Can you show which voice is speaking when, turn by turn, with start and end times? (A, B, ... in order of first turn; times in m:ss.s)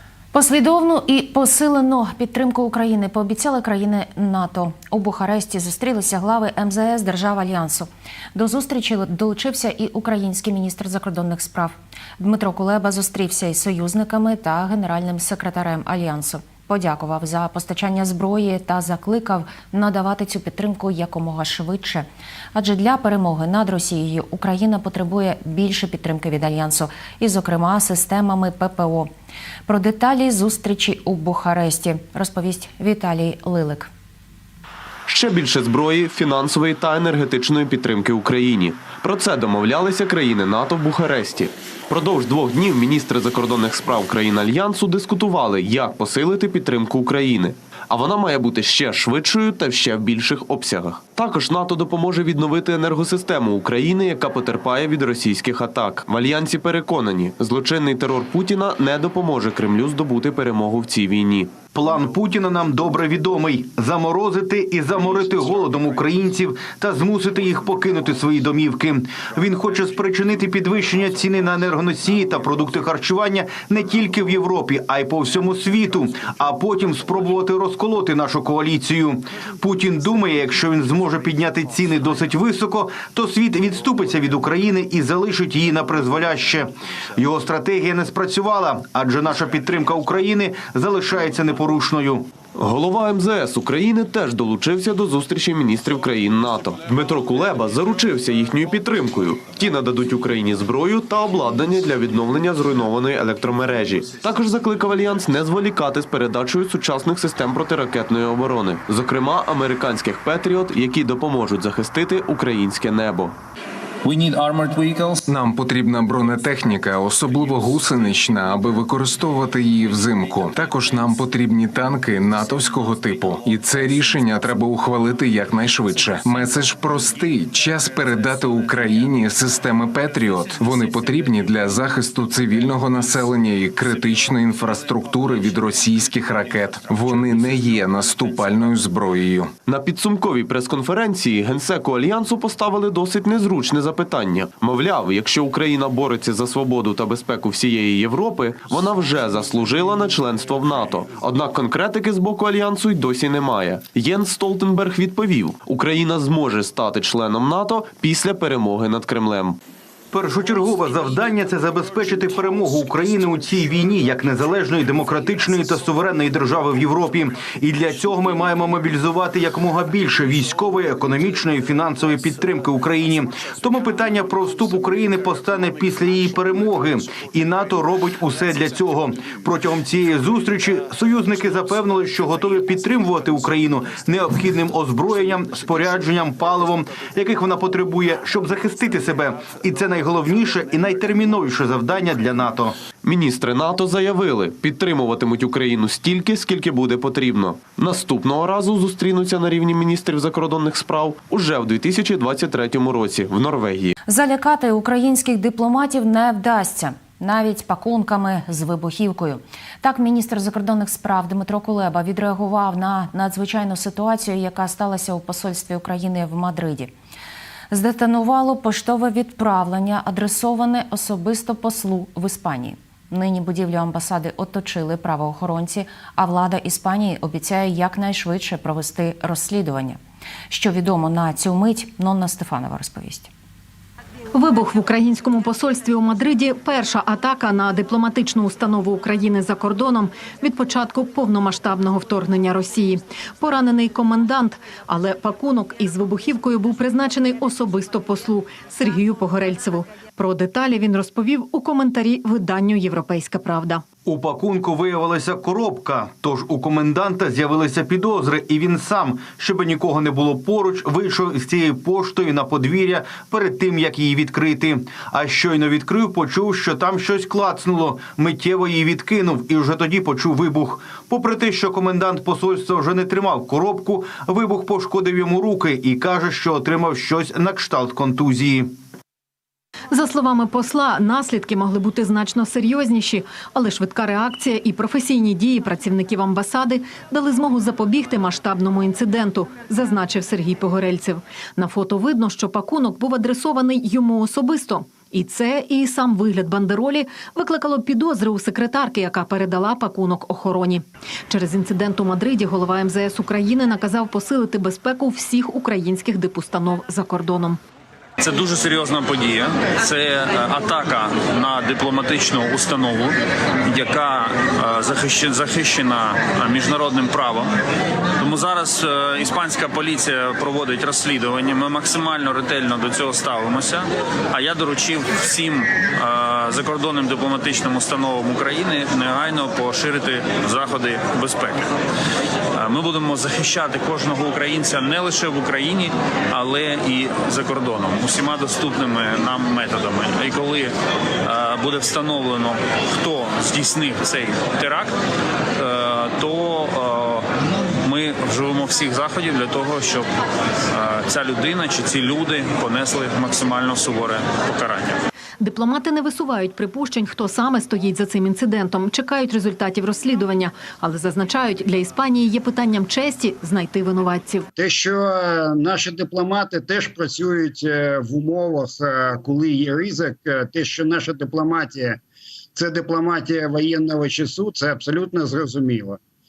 0:00.3-0:29.1 A
0:29.7-0:33.9 A
0:35.1-1:01.5 B
1:01.7-1:32.3 C
1:32.6-1:53.4 B
1:54.0-1:55.2 D
1:55.3-2:19.5 E
2:19.7-2:39.6 B
2:40.1-3:12.8 C
3:13.0-3:23.9 B
3:24.1-3:36.9 A
3:37.7-3:50.0 A
3:50.5-3:53.3 A
3:54.4-4:13.8 F
4:14.0-4:38.7 C
4:39.9-5:07.6 F
5:08.2-5:13.2 D
5:13.7-5:17.5 D
5:18.2-5:31.7 D
5:32.6-5:45.0 D
5:45.6-5:47.3 D
5:47.8-5:50.1 D
5:50.7-5:55.0 D
5:55.4-6:04.5 F
6:04.6-6:12.0 G
6:12.6-6:16.0 G